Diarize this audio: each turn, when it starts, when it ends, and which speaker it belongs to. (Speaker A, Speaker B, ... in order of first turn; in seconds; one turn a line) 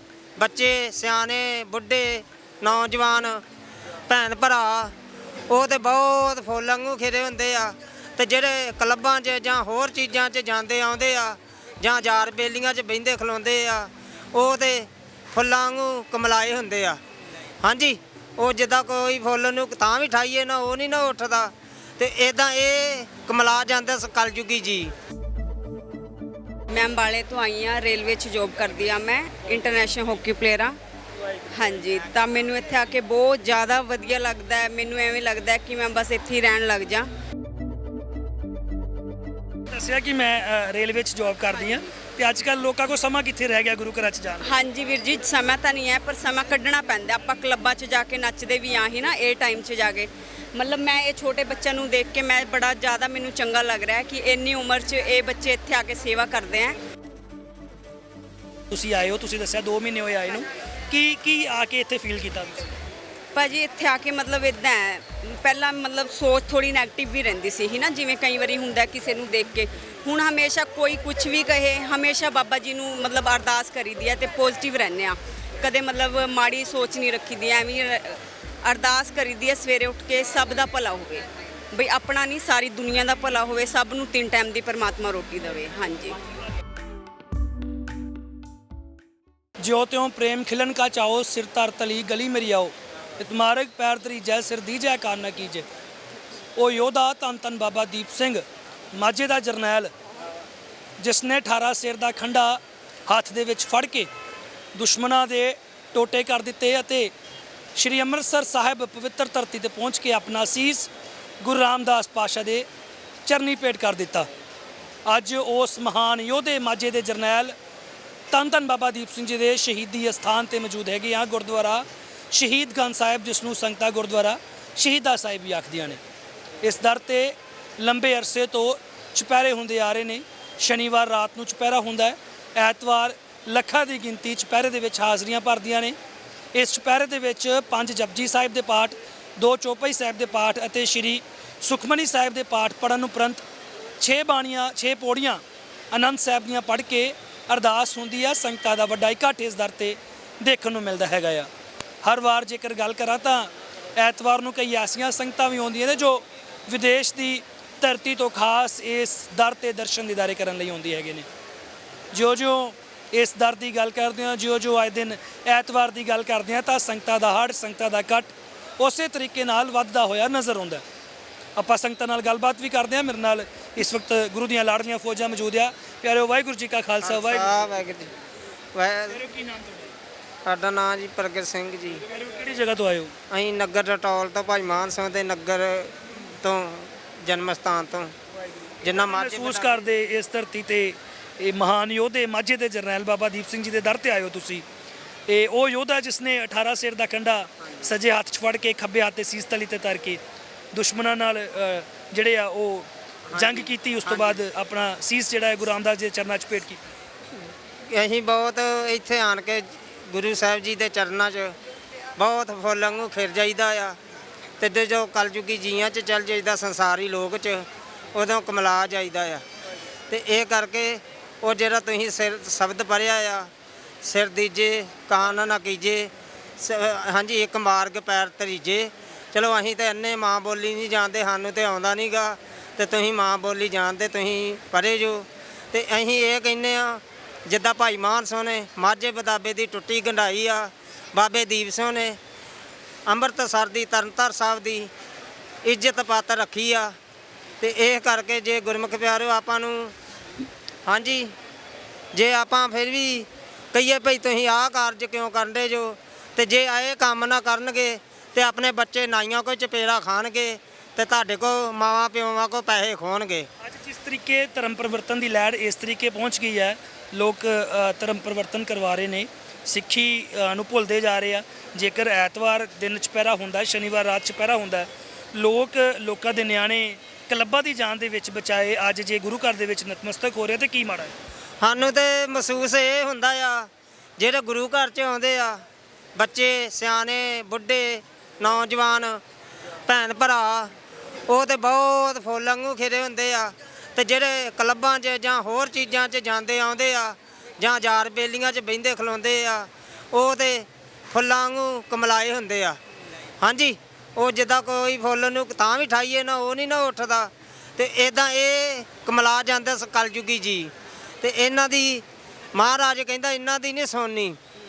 Speaker A: 0.4-3.4
Speaker A: 4.1-4.9
Speaker A: 5.5-17.0
Speaker A: 17.6-24.9
Speaker B: 26.7-30.8
Speaker B: 31.5-37.1
Speaker C: 39.7-44.6
Speaker B: 44.4-56.8
Speaker C: 58.7-62.7
Speaker B: 63.3-86.2
Speaker C: 89.6-95.7
Speaker C: 96.5-99.9
Speaker C: 101.0-104.1
Speaker C: 104.7-107.1
Speaker C: 107.7-110.9
Speaker C: 111.4-112.7
Speaker C: 113.3-114.3
Speaker C: 115.0-117.5
Speaker C: 118.3-126.0
Speaker C: 126.6-135.9
Speaker C: 136.5-143.4
Speaker C: 144.0-151.5
Speaker C: 152.0-161.3
Speaker C: 162.1-170.8
Speaker C: 171.6-177.5
Speaker A: 177.0-178.1
Speaker A: 178.7-179.2
Speaker C: 179.1-179.9
Speaker A: 180.5-182.0
Speaker C: 182.1-183.1
Speaker A: 183.3-188.1
Speaker A: 188.8-189.8
Speaker C: 188.9-194.6
Speaker C: 195.3-200.2
Speaker C: 200.7-206.8
Speaker A: 203.3-204.4
Speaker A: 207.9-211.6
Speaker A: 212.2-214.0
Speaker A: 214.6-219.4
Speaker A: 220.1-223.5
Speaker A: 224.0-242.2
Speaker A: 243.1-244.9
Speaker A: 245.6-246.9
Speaker A: 247.6-249.9
Speaker A: 250.9-251.3
Speaker A: 252.1-263.5
Speaker C: 263.6-281.1
Speaker A: 281.6-285.6
Speaker A: 286.2-289.2
Speaker A: 289.9-290.7
Speaker A: 291.3-302.8
Speaker A: 303.4-314.4